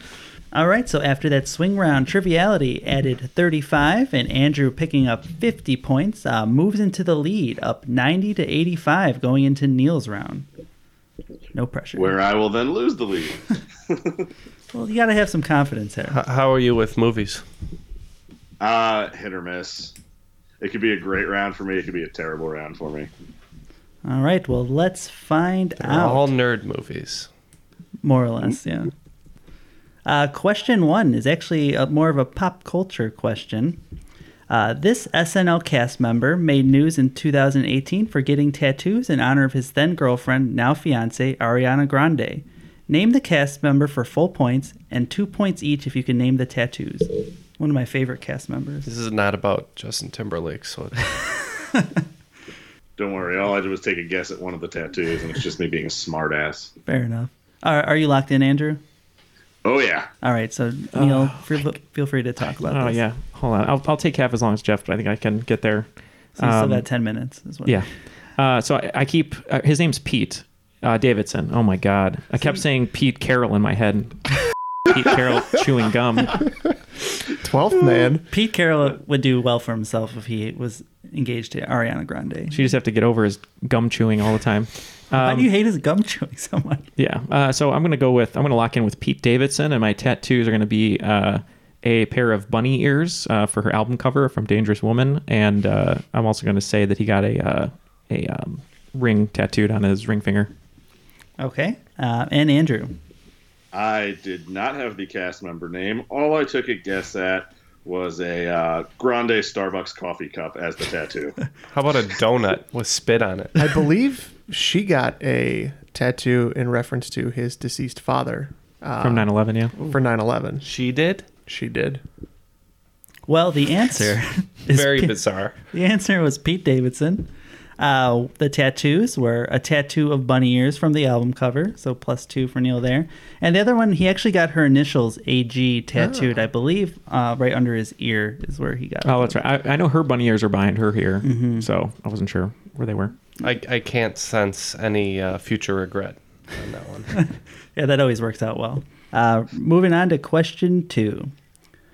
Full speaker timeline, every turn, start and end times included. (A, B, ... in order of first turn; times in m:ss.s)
0:00.5-0:10.5 A
0:11.5-0:12.2 A
0:12.0-0:14.2 B
0:14.7-0:16.2 A
0:16.1-0:17.4 C
0:18.6-0:19.9 B
0:20.6-0:23.1 B
0:24.0-0:26.3 A
0:25.8-0:27.3 C
0:28.0-0:28.9 A
0:30.0-0:33.8 A
0:34.5-0:48.9 A
0:48.8-0:51.2 C
0:53.0-0:56.7 B
0:56.9-0:58.8 A
0:59.6-1:00.1 B
1:00.2-1:03.0 A
1:00.9-1:01.7 D
1:02.6-1:06.8 D
1:06.4-1:07.8 A
1:07.6-1:16.4 D
1:17.3-1:18.2 E
1:18.3-1:22.7 A
1:22.5-1:25.5 D
1:25.1-1:26.9 A
1:27.0-1:40.5 D
1:41.4-1:43.0 A
1:43.7-1:51.4 B
1:51.7-1:53.6 C
1:53.6-2:00.7 E
1:59.0-1:59.7 D
2:00.6-2:01.3 C
2:01.4-2:02.0 E
2:03.3-2:05.2 A
2:04.7-2:05.6 C
2:05.7-2:19.4 A
2:16.0-2:16.3 E
2:19.0-2:23.1 D
2:21.2-2:21.7 A
2:23.4-2:27.2 C
2:27.2-2:31.3 A